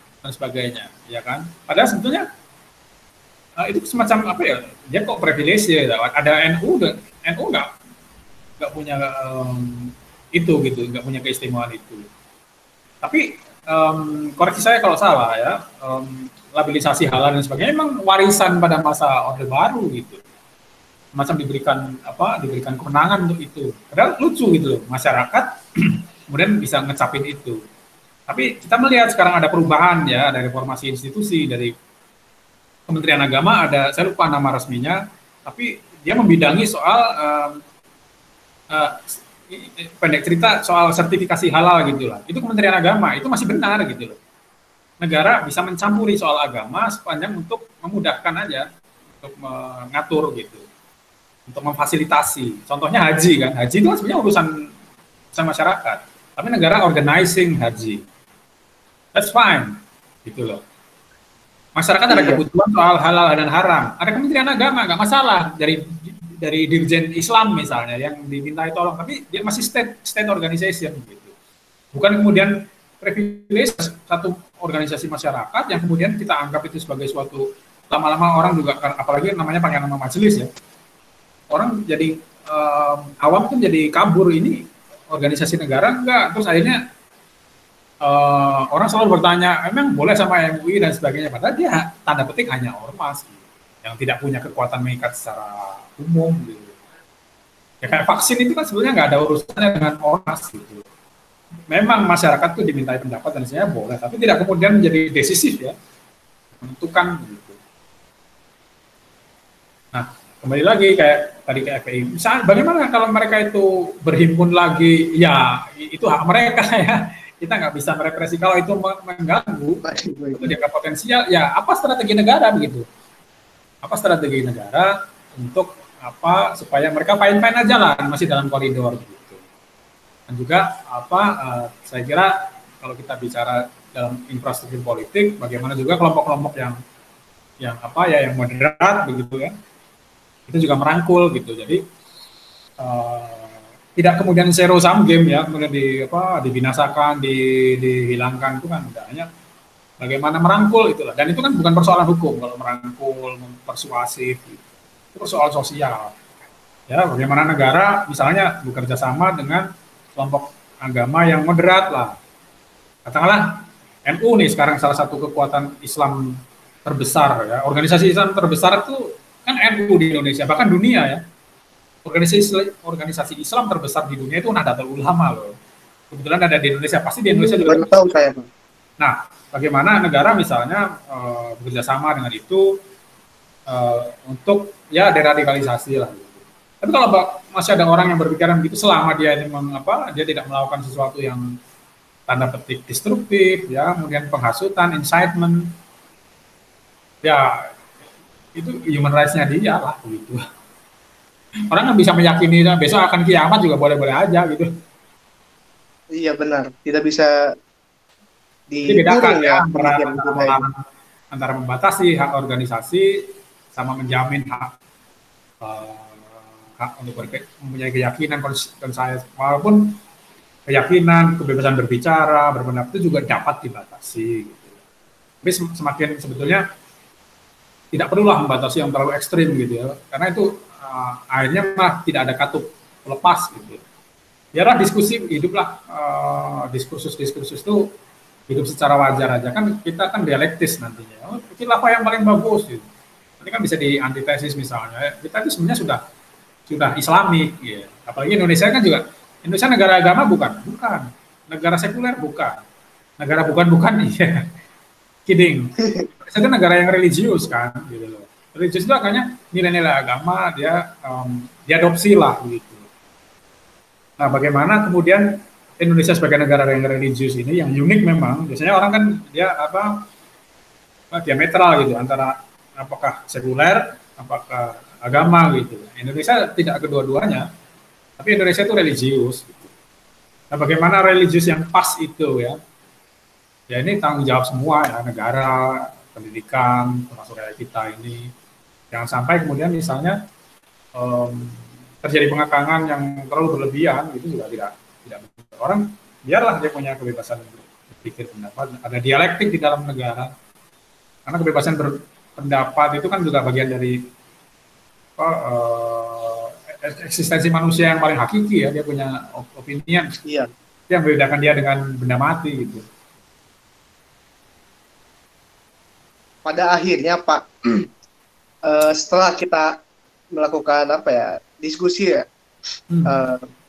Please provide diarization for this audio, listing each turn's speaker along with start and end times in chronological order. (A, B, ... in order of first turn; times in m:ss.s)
0:00.2-0:02.3 A
0:03.6-0:07.7 A
0:08.6-0:12.0 A
0:13.0-0:20.2 A
0:21.2-0:27.6 A
0:28.3-0:31.7 A
0:32.9-0:37.6 A
0:38.7-0:44.2 A
0:45.0-0:48.7 A
0:49.2-0:50.6 A
0:51.5-0:54.7 A
0:55.3-0:58.0 A
0:59.1-1:00.6 A
1:01.8-1:11.3 A
1:02.1-1:02.4 B
1:11.9-1:20.5 A
1:21.5-1:26.8 A
1:28.0-1:36.8 A
1:37.8-1:40.8 A
1:41.7-1:45.7 A
1:46.6-1:47.6 A
1:49.9-1:59.8 A
1:59.8-2:00.5 B
2:00.4-2:02.8 A
2:03.8-2:09.4 A
2:10.3-2:16.8 A
2:17.6-2:19.5 A
2:20.5-2:21.8 A
2:22.8-2:29.3 A
2:30.0-2:34.6 A
2:35.1-2:36.1 A
2:36.9-2:42.2 A
2:43.1-2:51.2 A
2:52.0-2:55.6 A
2:56.1-2:58.0 A
2:57.3-2:58.4 B
2:59.0-3:02.8 A
3:03.7-3:11.5 A
3:12.3-3:15.8 A
3:17.2-3:17.7 A
3:18.6-3:20.4 A
3:21.7-3:24.7 A
3:26.2-3:27.3 B
3:28.7-3:30.6 B
3:28.9-3:33.2 A
3:33.7-3:34.7 A
3:35.6-3:40.0 A
3:40.7-3:44.7 A
3:45.4-3:46.6 A
3:47.9-3:53.8 A
3:54.5-3:57.9 A
3:58.5-4:02.8 A
4:03.4-4:06.0 A
4:06.7-4:12.6 A
4:13.2-4:14.5 A
4:15.3-4:22.9 A
4:15.8-4:16.1 B
4:24.2-4:25.3 A
4:25.8-4:30.1 A
4:31.1-4:37.5 A
4:38.2-4:39.7 A
4:40.5-4:42.6 A
4:43.7-4:48.3 A
4:48.9-4:50.2 A
4:51.0-5:00.3 A
5:01.3-5:04.0 A
5:05.2-5:10.2 A
5:10.9-5:12.8 A
5:16.4-5:17.9 B
5:18.6-5:19.8 B
5:20.4-5:22.2 B
5:22.9-5:23.2 A
5:23.1-5:23.5 B